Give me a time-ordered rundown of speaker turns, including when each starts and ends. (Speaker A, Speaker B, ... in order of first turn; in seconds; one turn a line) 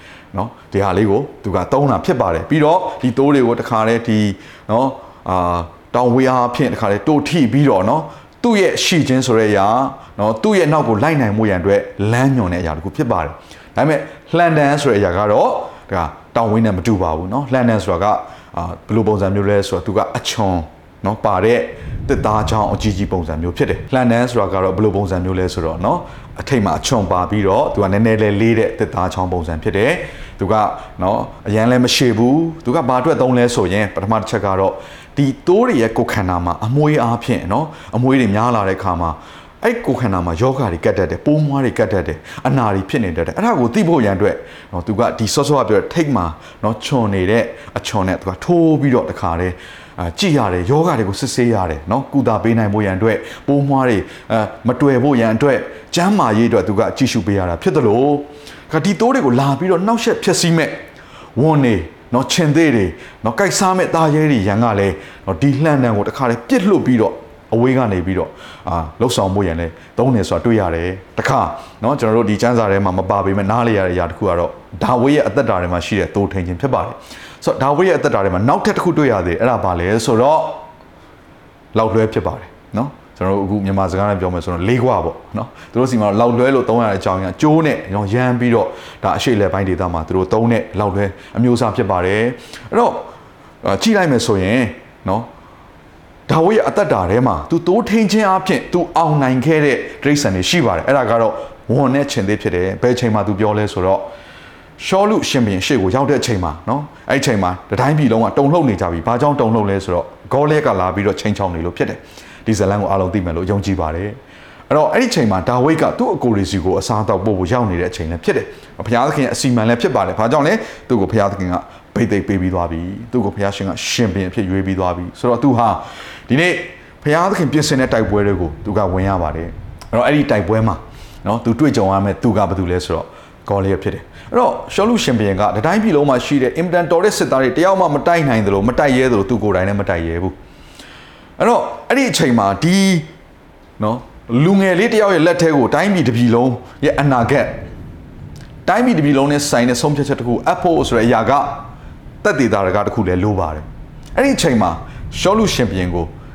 Speaker A: 0.3-60.8
Speaker A: 61.4-80.7
Speaker A: 81.7-93.1
Speaker A: 93.6-95.3
Speaker A: 96.3-104.1
Speaker A: 104.8-114.2
Speaker A: 114.7-140.4
Speaker A: 141.4-143.1
Speaker A: 143.8-147.7
Speaker A: 148.7-151.7
Speaker A: 152.2-156.1